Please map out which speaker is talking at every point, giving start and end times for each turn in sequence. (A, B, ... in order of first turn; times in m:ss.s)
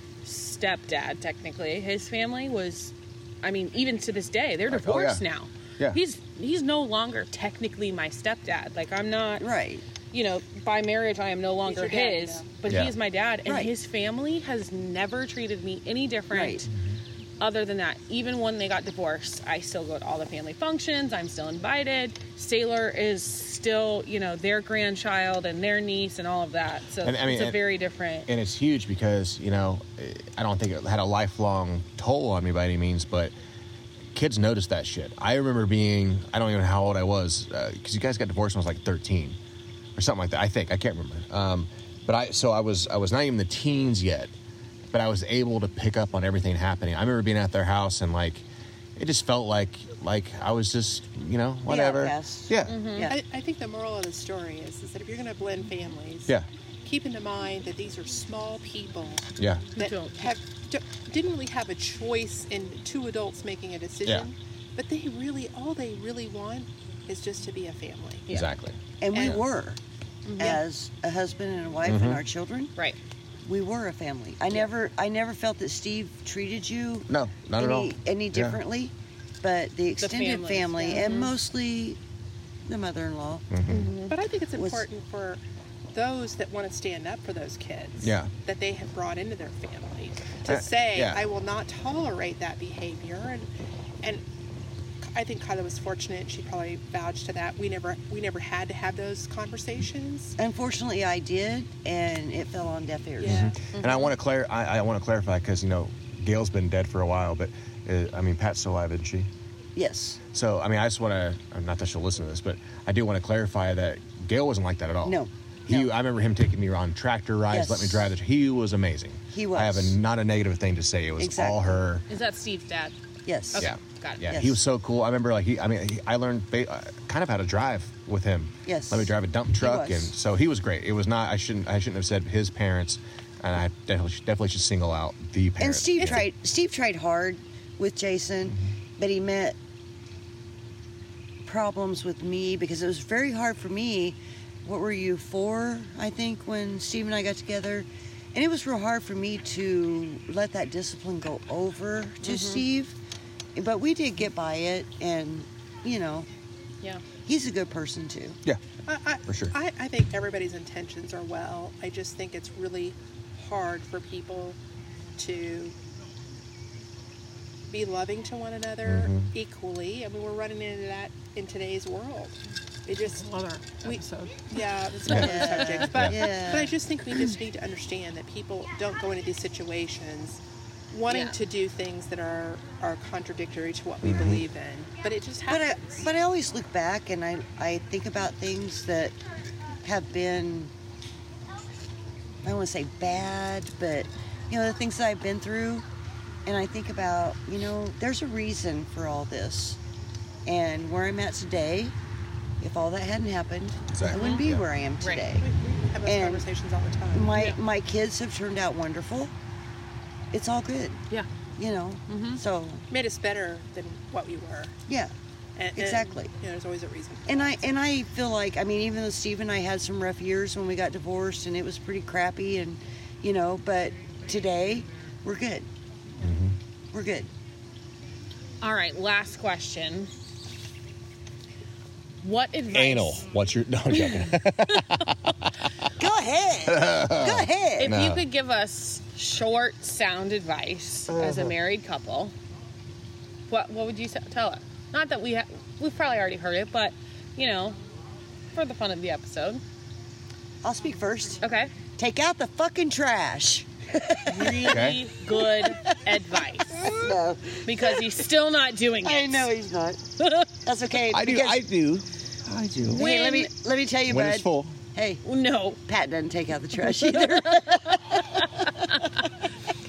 0:00.2-0:09.5 A
0:04.7-0:05.2 B
0:09.4-0:09.9 C
0:10.1-0:16.7 A
0:11.6-0:12.6 D
0:12.7-0:13.0 B
0:16.3-0:16.7 C
0:17.4-0:28.3 A
0:27.0-0:27.6 B
0:28.3-0:33.3 B
0:34.1-0:39.4 B
0:40.0-0:44.3 B
0:44.9-0:52.9 B
0:51.7-0:53.2 C
0:52.7-0:53.1 A
0:53.1-1:08.3 D
0:59.4-0:59.7 B
0:59.8-1:00.4 A
1:08.3-1:09.3 B
1:09.0-1:09.8 C
1:09.1-1:09.4 D
1:10.3-1:10.6 A
1:10.4-1:12.7 C
1:11.8-1:12.2 B
1:13.4-1:22.0 C
1:17.1-1:18.6 B
1:20.0-1:21.4 A
1:22.7-1:23.5 C
1:23.5-1:23.9 B
1:23.7-1:24.1 A
1:24.0-1:25.4 D
1:24.6-1:24.9 C
1:25.9-1:33.5 D
1:28.0-1:28.3 B
1:30.5-1:31.2 B
1:35.0-1:40.4 D
1:40.4-1:43.5 C
1:43.2-1:43.6 D
1:43.3-1:49.3 B
1:43.8-1:44.1 A
1:49.8-1:50.2 C
1:50.3-2:02.0 B
1:55.0-1:55.9 C
1:57.5-1:58.1 C
1:59.3-2:00.0 C
2:01.2-2:01.8 C
2:02.1-2:03.0 A
2:03.3-2:03.7 C
2:03.5-2:04.3 A
2:03.6-2:16.2 B
2:04.3-2:04.6 C
2:08.7-2:10.1 C
2:15.6-2:19.6 C
2:16.0-2:16.2 D
2:21.4-2:33.0 C
2:32.2-2:32.6 A
2:33.6-2:36.3 C
2:37.3-2:38.4 C
2:38.9-2:44.6 D
2:39.3-2:39.5 B
2:45.2-2:45.8 D
2:47.7-2:53.3 D
2:48.8-2:49.3 B
2:53.0-2:54.6 A
2:53.8-3:06.1 D
2:55.1-2:56.8 C
2:55.3-2:55.8 A
2:55.8-2:56.2 B
3:01.1-3:01.4 A
3:04.0-3:04.4 B
3:05.5-3:09.2 C
3:09.8-3:10.7 C
3:12.4-3:15.8 C
3:16.5-3:19.8 C
3:20.5-3:22.0 C
3:22.6-3:25.5 C
3:23.9-3:24.7 B
3:24.1-3:24.5 A
3:25.0-3:25.3 A
3:25.4-3:27.5 D
3:26.0-3:26.5 C
3:27.1-3:29.3 C
3:30.3-3:31.0 C
3:31.6-3:32.9 C
3:32.1-3:32.4 A
3:32.9-3:34.7 D
3:34.9-3:35.1 C
3:35.6-3:37.6 D
3:35.8-3:36.3 C
3:37.3-3:45.7 C
3:46.2-3:46.6 B
3:46.9-3:47.3 C
3:48.6-3:50.1 A
3:52.2-3:53.3 A
3:52.7-3:55.4 B
3:53.9-3:54.3 A
3:56.0-3:58.0 C
3:56.7-3:58.2 B
3:57.8-4:02.3 A
4:03.5-4:07.8 A
4:08.5-4:09.6 A
4:10.6-4:11.4 C
4:11.4-4:11.7 A
4:12.0-4:18.2 C
4:14.3-4:16.9 A
4:14.6-4:15.1 B
4:17.7-4:19.5 A
4:19.0-4:20.0 C
4:20.2-4:20.5 A
4:20.6-4:21.6 C
4:21.1-4:23.0 B
4:22.9-4:25.2 C
4:22.9-4:23.5 A
4:24.1-4:24.8 B
4:25.2-4:25.8 A
4:25.9-4:29.1 C
4:26.8-4:29.2 A